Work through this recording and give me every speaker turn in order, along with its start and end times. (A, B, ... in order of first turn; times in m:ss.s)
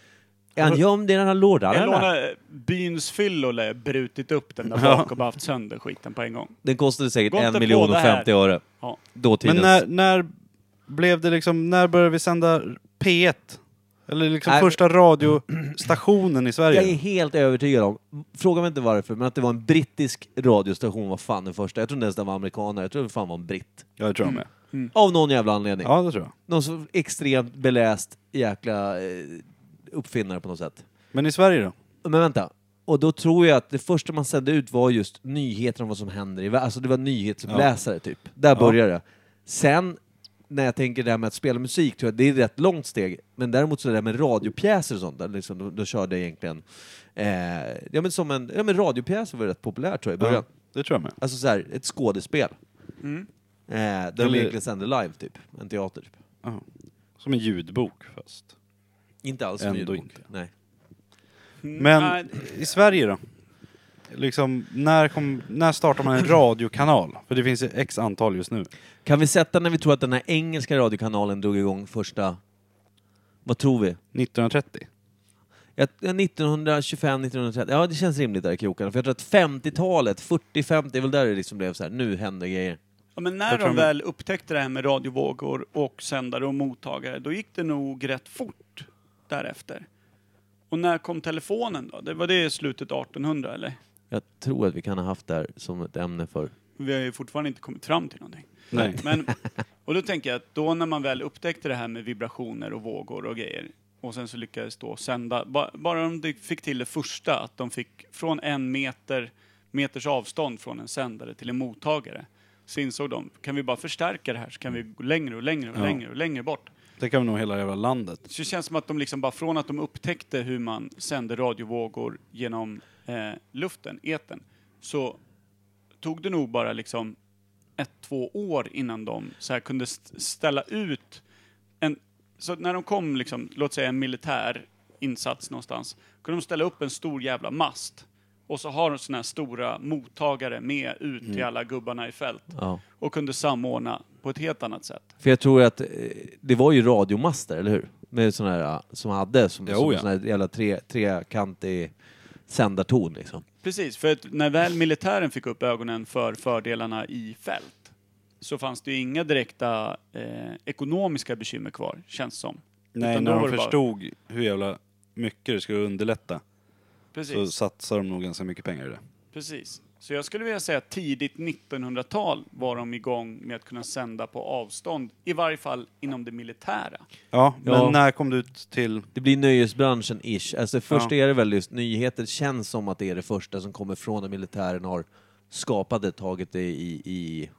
0:00.6-0:02.1 A
0:01.7-0:06.5 B
0:04.7-0:05.1 C
0:06.6-0:08.6 A
0:07.3-0:09.0 B
0:09.1-0:09.8 A
0:09.4-0:10.3 C
0:10.9-0:17.0 C
0:14.4-0:14.8 A
0:16.7-0:23.8 A
0:24.0-0:24.5 C
0:24.2-0:24.9 B
0:24.9-0:25.9 A
0:25.8-0:26.3 C
0:26.4-0:30.8 A
0:31.1-0:31.7 C
0:32.0-0:50.5 A
0:50.2-0:51.2 C
0:51.2-0:52.6 A
0:53.0-0:53.3 B
0:53.7-0:56.1 A
0:54.2-0:54.5 C
0:57.2-0:58.5 C
0:59.2-1:00.5 A
0:59.6-1:00.2 C
1:01.6-1:03.0 B
1:01.8-1:03.2 C
1:04.1-1:08.7 C
1:09.0-1:12.4 A
1:13.4-1:14.0 A
1:14.1-1:14.9 C
1:15.8-1:22.8 A
1:23.2-1:29.9 B
1:23.5-1:23.9 C
1:30.7-1:33.8 B
1:34.1-1:36.5 A
1:36.8-1:56.7 B
1:38.7-1:39.0 C
1:38.7-1:39.3 A
1:57.0-1:58.2 C
1:58.3-2:05.2 B
2:06.0-2:07.2 B
2:07.8-2:11.2 B
2:11.8-2:25.1 B
2:22.6-2:22.8 A
2:25.2-2:31.9 A
2:29.6-2:30.0 C
2:32.5-2:33.4 A
2:33.6-2:43.8 B
2:42.9-2:46.4 C
2:47.1-2:47.5 B
2:47.3-2:49.0 C
2:49.3-2:57.0 B
2:57.3-2:59.1 C
2:57.6-2:58.0 A
2:59.1-3:07.5 A